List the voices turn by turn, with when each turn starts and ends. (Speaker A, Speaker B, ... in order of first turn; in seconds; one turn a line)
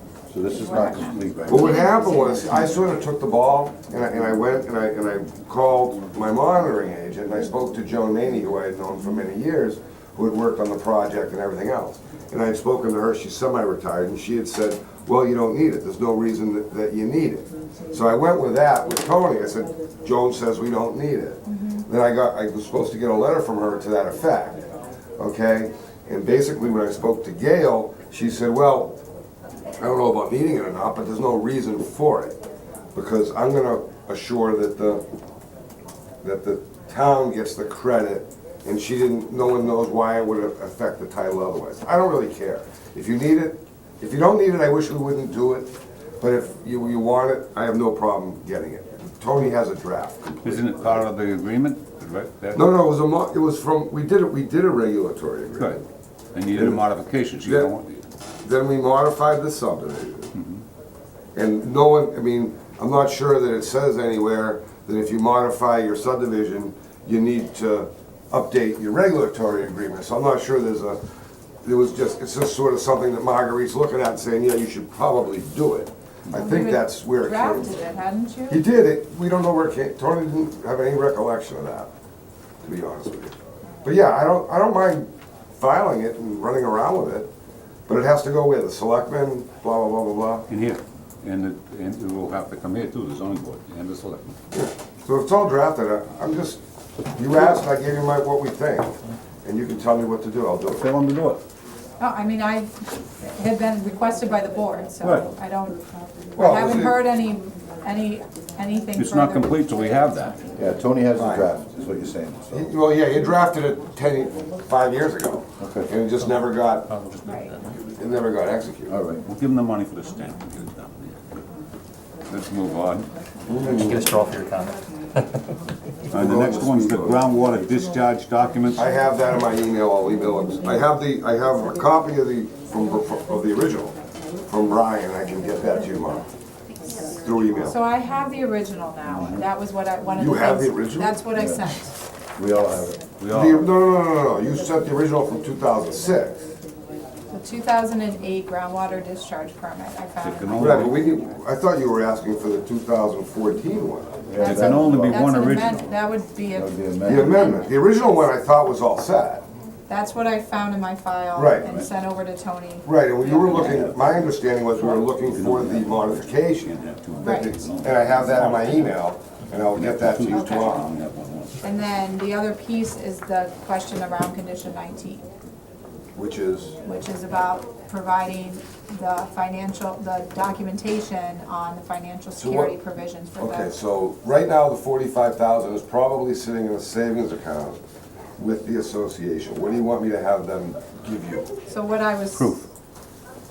Speaker A: 0.3-1.9
Speaker B: 0.4-2.9
Speaker C: 1.5-24.6
Speaker B: 21.4-21.9
Speaker C: 25.2-29.0
Speaker C: 29.8-32.4
Speaker C: 32.9-35.0
Speaker C: 36.2-51.1
Speaker D: 50.4-52.6
Speaker C: 52.5-55.8
Speaker D: 56.3-58.0
Speaker C: 57.4-57.7
Speaker C: 58.4-60.3
Speaker D: 60.3-60.6
Speaker C: 61.3-71.0
Speaker C: 71.6-77.7
Speaker B: 76.3-78.6
Speaker C: 78.5-81.9
Speaker C: 82.6-87.3
Speaker C: 87.9-90.5
Speaker D: 90.5-94.3
Speaker C: 94.5-96.6
Speaker C: 97.2-100.9
Speaker D: 100.8-101.4
Speaker B: 102.0-105.8
Speaker C: 106.3-107.0
Speaker B: 106.3-110.7
Speaker D: 109.0-110.4
Speaker A: 110.5-112.7
Speaker C: 111.1-111.5
Speaker C: 112.5-116.9
Speaker A: 115.6-115.9
Speaker E: 116.9-117.8
Speaker B: 117.2-117.5
Speaker C: 117.8-118.9
Speaker A: 118.9-119.2
Speaker D: 119.1-121.2
Speaker D: 122.3-123.1
Speaker C: 123.5-124.2
Speaker E: 123.7-125.4
Speaker C: 126.1-127.2
Speaker D: 126.1-128.8
Speaker C: 128.8-133.9
Speaker C: 134.5-136.3
Speaker C: 137.1-137.8
Speaker B: 137.6-141.9
Speaker A: 139.1-139.4
Speaker C: 140.2-141.2
Speaker A: 141.3-141.7
Speaker A: 142.4-143.1
Speaker D: 143.2-143.7
Speaker C: 143.3-146.5
Speaker B: 147.3-150.8
Speaker D: 150.2-151.0
Speaker C: 150.5-154.2
Speaker D: 154.3-155.9
Speaker A: 154.3-155.3
Speaker B: 154.3-157.7
Speaker A: 156.5-157.5
Speaker C: 157.0-159.4
Speaker B: 159.9-163.8
Speaker C: 161.3-161.8
Speaker C: 162.8-170.9
Speaker D: 163.5-163.9
Speaker D: 164.8-169.0
Speaker B: 167.2-167.6
Speaker D: 169.7-171.7
Speaker B: 170.3-170.8
Speaker B: 171.6-175.2
Speaker C: 176.1-176.8
Speaker B: 176.8-183.7
Speaker C: 182.4-182.7
Speaker C: 183.4-187.8
Speaker C: 188.4-191.5
Speaker B: 191.7-192.6
Speaker D: 192.3-192.7